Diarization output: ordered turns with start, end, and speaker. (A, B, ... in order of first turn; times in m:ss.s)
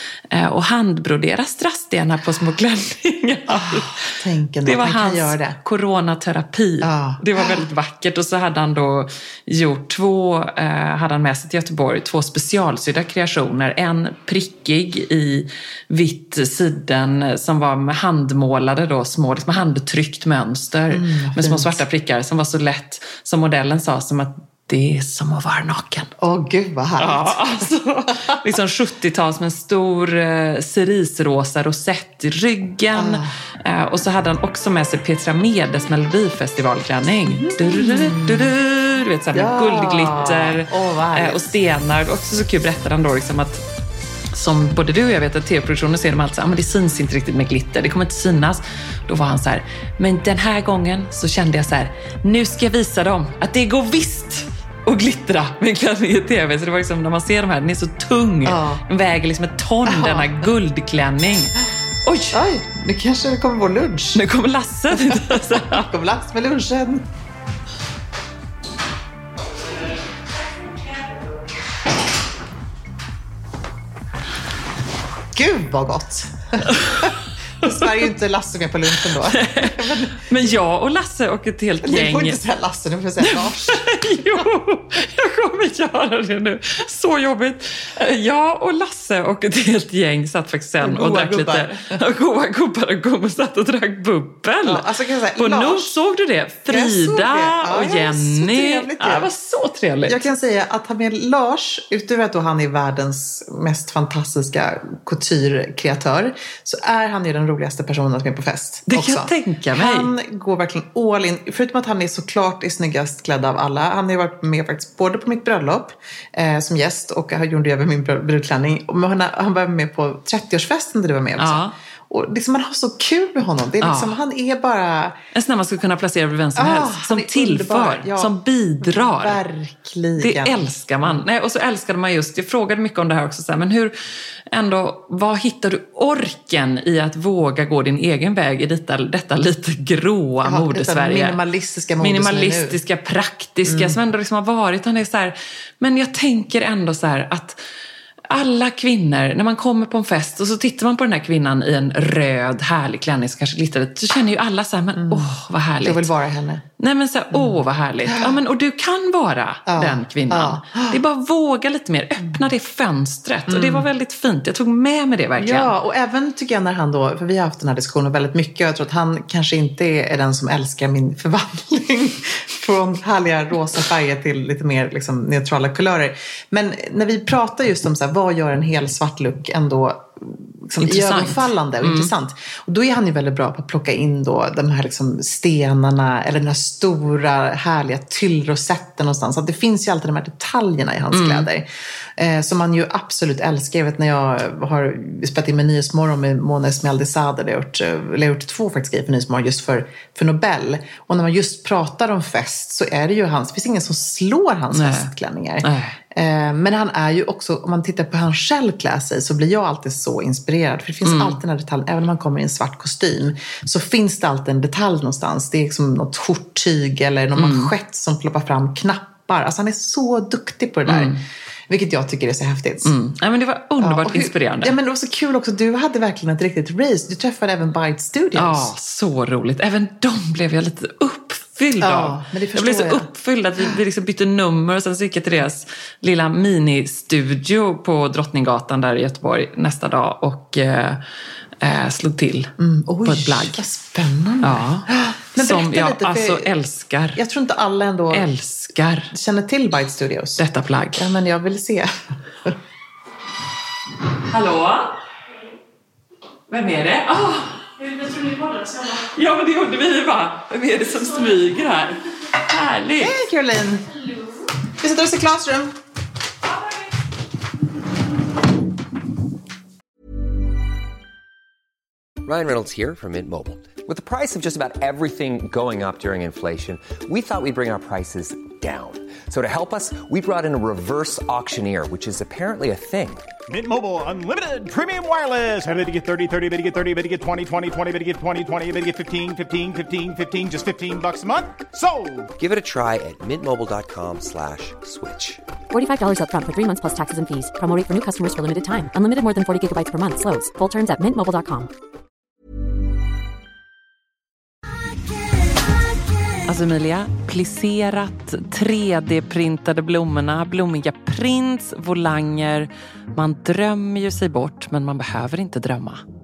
0:00.3-0:26.1 A
0:03.5-0:05.6 B
0:06.8-0:07.6 B
0:20.9-0:21.8 B
0:26.2-0:27.7 B
0:27.0-0:43.6 A
0:33.0-0:33.3 B
0:37.3-0:38.5 B
0:39.3-0:41.5 B
0:44.3-1:02.4 A
0:58.4-0:58.8 B
0:59.9-1:00.5 B
1:02.3-1:04.2 B
1:04.2-1:05.9 A
1:04.9-1:07.0 B
1:15.3-1:17.1 B
1:16.7-1:17.1 A
1:17.6-1:17.9 A
1:17.6-1:20.4 B
1:19.1-1:22.4 A
1:21.8-1:23.8 B
1:23.2-1:40.3 A
1:30.8-1:32.0 B
1:34.6-1:36.0 B
1:36.7-1:39.3 B
1:40.1-2:05.2 B
1:48.9-1:50.1 A
2:01.4-2:01.7 A
2:03.8-2:04.2 A
2:05.3-2:09.4 A
2:06.6-2:11.2 B
2:10.2-2:14.0 A
2:14.5-2:21.4 A
2:20.4-2:22.8 B
2:22.0-2:27.6 A
2:23.7-2:24.0 B
2:28.3-2:36.1 A
2:35.0-2:35.3 B
2:35.8-2:36.6 B
2:36.8-2:45.7 A
2:37.3-2:38.4 B
2:39.7-2:41.0 B
2:43.5-2:43.9 B
2:45.4-3:41.2 B
3:00.8-3:02.1 A
3:11.1-3:11.5 A
3:24.7-3:25.1 A
3:25.6-3:26.0 A
3:31.1-3:31.4 A
3:37.4-3:37.7 A
3:40.9-3:41.2 A
3:41.7-3:42.9 B
3:42.8-3:44.8 A
3:43.8-3:48.7 B
3:48.4-4:01.0 A
3:51.8-3:53.1 B
4:01.6-4:02.5 A
4:02.6-4:06.5 B
4:03.0-4:03.6 A
4:04.4-4:07.2 A
4:07.2-4:08.3 B
4:08.1-4:09.1 A
4:09.1-4:10.4 B
4:10.4-4:11.1 A
4:11.0-4:11.9 B
4:14.3-4:15.0 A
4:16.5-4:23.2 A
4:23.0-4:24.0 B
4:24.8-4:25.8 B
4:32.2-4:43.2 C
4:43.5-4:52.3 D
4:52.4-4:55.4 C
4:55.7-5:01.7 E
5:06.5-5:16.0 A